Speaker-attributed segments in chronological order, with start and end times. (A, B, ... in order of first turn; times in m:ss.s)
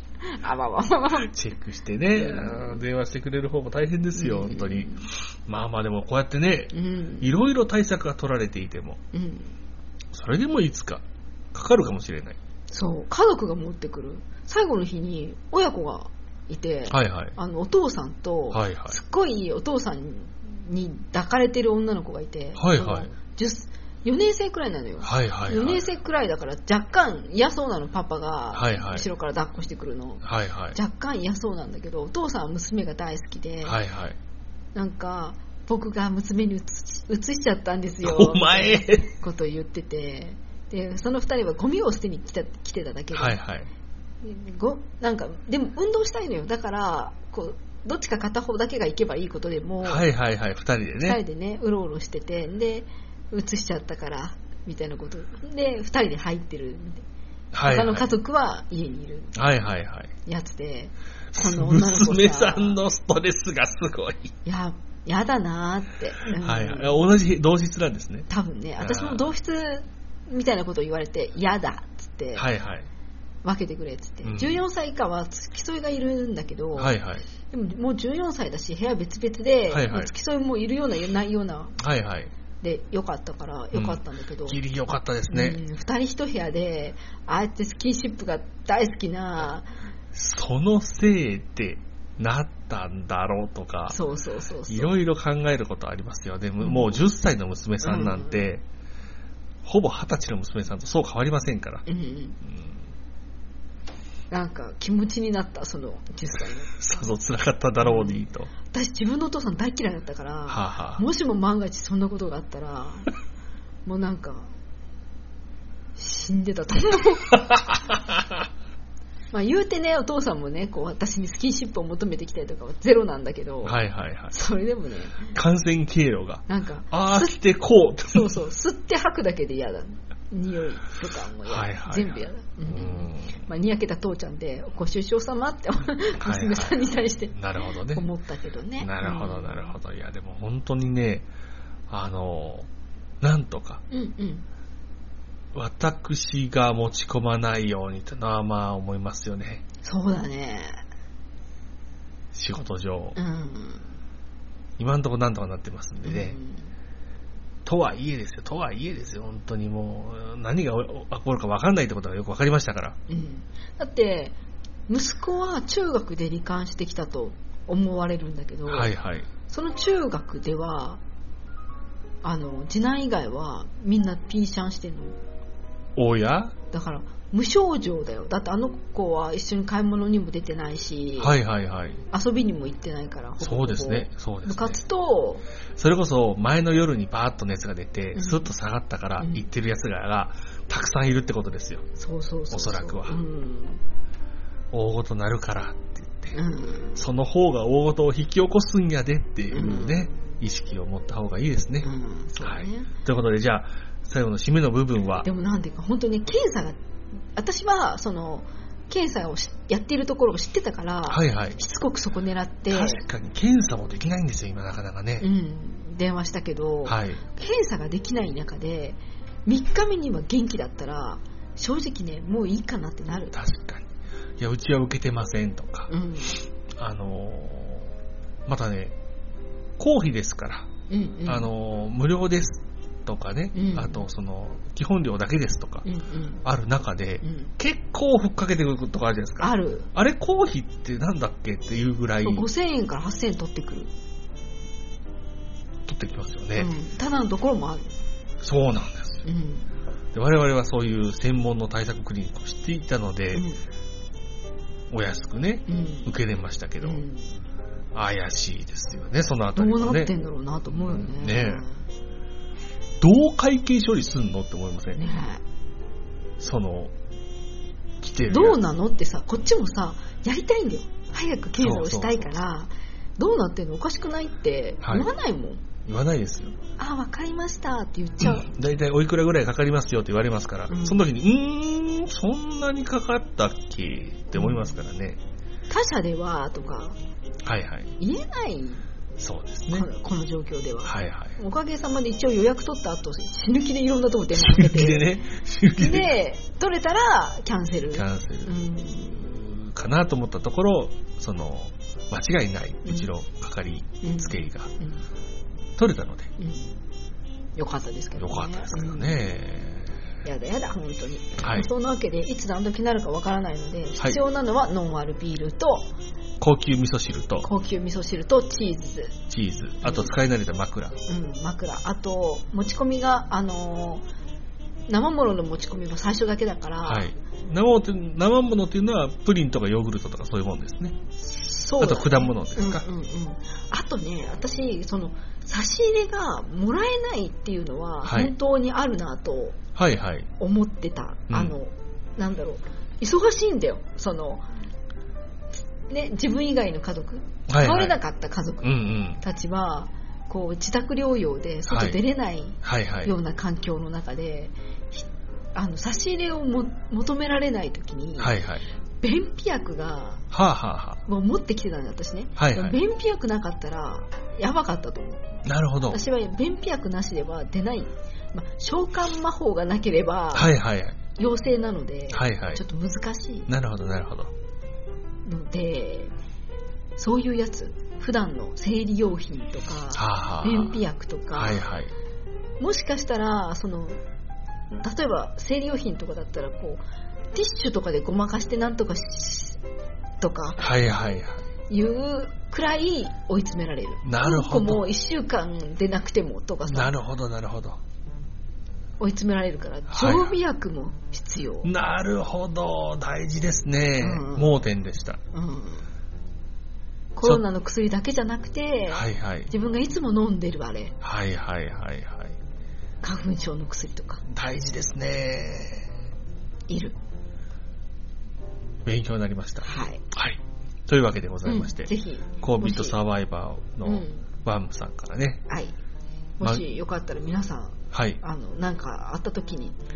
0:00.2-0:01.3 A
0:01.1-0:09.0 B
0:02.1-0:02.8 A
0:04.1-0:05.1 A
0:06.7-0:07.3 A
0:09.1-0:09.6 A
0:10.1-0:12.4 B
0:12.7-0:33.8 A
0:16.9-0:17.4 B
0:18.5-0:19.0 B
0:22.6-0:23.1 B
0:25.0-0:25.8 B
0:28.5-0:29.1 B
0:30.2-0:30.8 B
0:33.6-0:34.2 B
0:34.7-0:43.4 A
0:38.0-0:39.1 B
0:43.1-0:43.7 B
0:44.2-0:50.1 A
0:49.8-0:51.2 B
0:51.0-0:57.0 A
0:57.5-0:58.1 B
0:57.6-0:59.4 A
0:59.4-1:00.1 B
1:00.3-1:02.8 A
1:01.3-1:04.4 B
1:04.4-1:07.0 A
1:06.4-1:08.3 B
1:08.3-1:12.5 A
1:08.8-1:09.3 B
1:12.4-1:12.9 B
1:13.4-1:16.9 A
1:14.2-1:14.6 B
1:16.7-1:17.3 B
1:17.5-1:21.8 A
1:19.7-1:20.1 B
1:21.8-1:22.3 B
1:22.6-1:24.6 A
1:23.7-1:25.6 B
1:25.3-1:29.7 A
1:30.1-1:34.0 B
1:33.9-1:35.0 A
1:34.7-1:38.6 B
1:36.6-1:37.1 A
1:37.8-1:38.5 A
1:39.6-1:41.8 B
1:41.9-1:42.4 A
1:42.4-1:42.8 B
1:44.3-1:47.1 A
1:46.8-1:48.5 B
1:47.8-1:53.1 A
1:50.5-1:51.0 B
1:53.8-1:54.5 A
1:56.0-1:57.5 A
1:57.5-1:58.2 B
1:59.3-2:03.8 A
2:03.6-2:04.4 B
2:04.3-2:05.3 A
2:05.3-2:08.4 B
2:06.5-2:07.4 A
2:08.1-2:17.4 A
2:11.4-2:13.4 B
2:16.2-2:18.0 B
2:17.9-2:19.8 A
2:18.8-2:21.3 B
2:21.9-2:22.7 B
2:23.2-2:23.8 B
2:23.9-2:24.4 A
2:25.5-2:29.6 B
2:29.8-2:30.8 A
2:32.3-2:33.2 B
2:33.2-2:33.9 A
2:34.8-2:36.4 B
2:36.0-2:36.7 A
2:37.6-2:43.0 B
2:43.1-2:44.4 A
2:44.9-2:48.9 A
2:48.7-2:49.3 B
2:49.5-2:51.0 A
2:52.2-2:55.2 A
2:56.0-2:56.6 B
2:56.7-3:01.3 A
3:01.2-3:02.0 B
3:02.1-3:05.4 A
3:03.4-3:04.8 B
3:05.8-3:11.9 B
3:08.1-3:08.5 A
3:09.2-3:09.5 A
3:12.0-3:13.8 A
3:12.5-3:13.2 B
3:14.7-3:16.4 B
3:16.3-3:17.0 A
3:17.0-3:21.9 B
3:19.5-3:20.3 A
3:21.8-3:22.9 A
3:22.4-3:25.3 B
3:25.2-3:26.8 A
3:27.3-3:33.0 A
3:31.1-3:31.6 B
3:32.7-3:35.3 B
3:35.2-3:43.4 A
3:36.8-3:37.2 B
3:43.3-3:45.9 B
3:45.9-3:46.4 A
3:46.8-3:47.9 B
3:48.4-3:49.0 B
3:49.8-3:50.7 B
3:50.9-3:51.5 A
3:51.3-3:55.9 B
3:53.5-3:54.0 A
3:55.8-3:56.4 A
3:56.4-4:02.5 B
3:57.2-3:57.5 A
3:59.4-3:59.9 A
4:02.2-4:03.9 A
4:05.9-4:06.7 B
4:06.6-4:07.9 A
4:08.4-4:09.3 B
4:09.2-4:09.7 A
4:10.1-4:13.4 B
4:13.3-4:13.6 A
4:14.9-4:17.0 B
4:15.7-4:16.1 A
4:16.8-4:17.4 A
4:17.9-4:20.1 B
4:19.6-4:21.8 A
4:20.7-4:21.6 B
4:23.0-4:25.0 B
4:25.0-4:25.4 A
4:26.4-4:26.9 B
4:28.0-4:28.6 B
4:28.3-4:35.6 A
4:31.6-4:32.4 B
4:34.8-4:35.1 B
4:35.8-4:36.6 B
4:36.8-4:38.5 A
4:38.2-4:45.2 B
4:40.7-4:41.0 A
4:44.4-4:44.8 A
4:45.7-4:47.0 A
4:47.4-4:47.9 B
4:48.0-4:48.8 A
4:49.2-4:49.9 B
4:49.7-4:59.4 A
4:50.8-4:51.4 B
4:54.3-4:56.2 B
4:57.9-4:58.6 B
4:59.2-5:04.7 B
5:04.0-5:05.0 A
5:05.8-5:06.3 B
5:06.4-5:06.7 A
5:07.6-5:09.3 A
5:08.2-5:09.9 B
5:10.2-5:15.9 A
5:11.4-5:11.7 B
5:16.4-5:17.5 B
5:17.4-5:19.2 A
5:19.3-5:21.0 B
5:19.8-5:20.1 A
5:21.1-5:24.0 A
5:24.9-5:27.1 A
5:26.8-5:31.0 B
5:31.2-5:39.6 A
5:31.8-5:32.9 B
5:38.0-5:38.3 B
5:39.7-5:40.3 B
5:40.4-5:44.5 A
5:41.3-5:41.6 B
5:45.9-5:58.4 A
5:47.5-5:48.0 B
5:48.6-5:49.2 B
5:51.7-5:52.0 B
5:52.6-5:53.1 B
5:58.2-5:58.6 B
5:59.0-6:00.2 A
6:00.3-6:01.0 B
6:01.0-6:05.3 A
6:02.4-6:02.8 B
6:05.4-6:06.0 B
6:05.9-6:10.5 A
6:10.3-6:11.0 B
6:11.2-6:13.5 A
6:12.1-6:12.6 B
6:13.5-6:14.3 B
6:15.2-6:16.1 A
6:17.0-6:21.6 A
6:19.9-6:20.8 B
6:21.3-6:21.9 B
6:22.6-6:24.0 A
6:24.7-6:26.8 A
6:27.3-6:29.6 A
6:30.2-6:30.7 A
6:30.6-6:31.4 B
6:31.7-6:36.9 A
6:34.0-6:34.8 B
6:36.7-6:37.8 B
6:39.0-6:41.7 A
6:39.9-6:40.4 B
6:41.6-6:45.2 B
6:44.0-6:44.6 A
6:45.3-6:45.9 A
6:47.2-6:51.0 A
6:48.9-6:49.5 B
6:51.0-6:52.4 B
6:53.0-6:54.2 A
6:54.3-6:55.9 B
6:56.7-6:57.0 A
6:58.8-7:01.9 B
6:59.6-7:00.0 A
7:01.4-7:03.0 A
7:02.4-7:05.4 B
7:03.8-7:04.3 A
7:05.5-7:05.7 A
7:06.4-7:09.8 A
7:07.9-7:08.2 B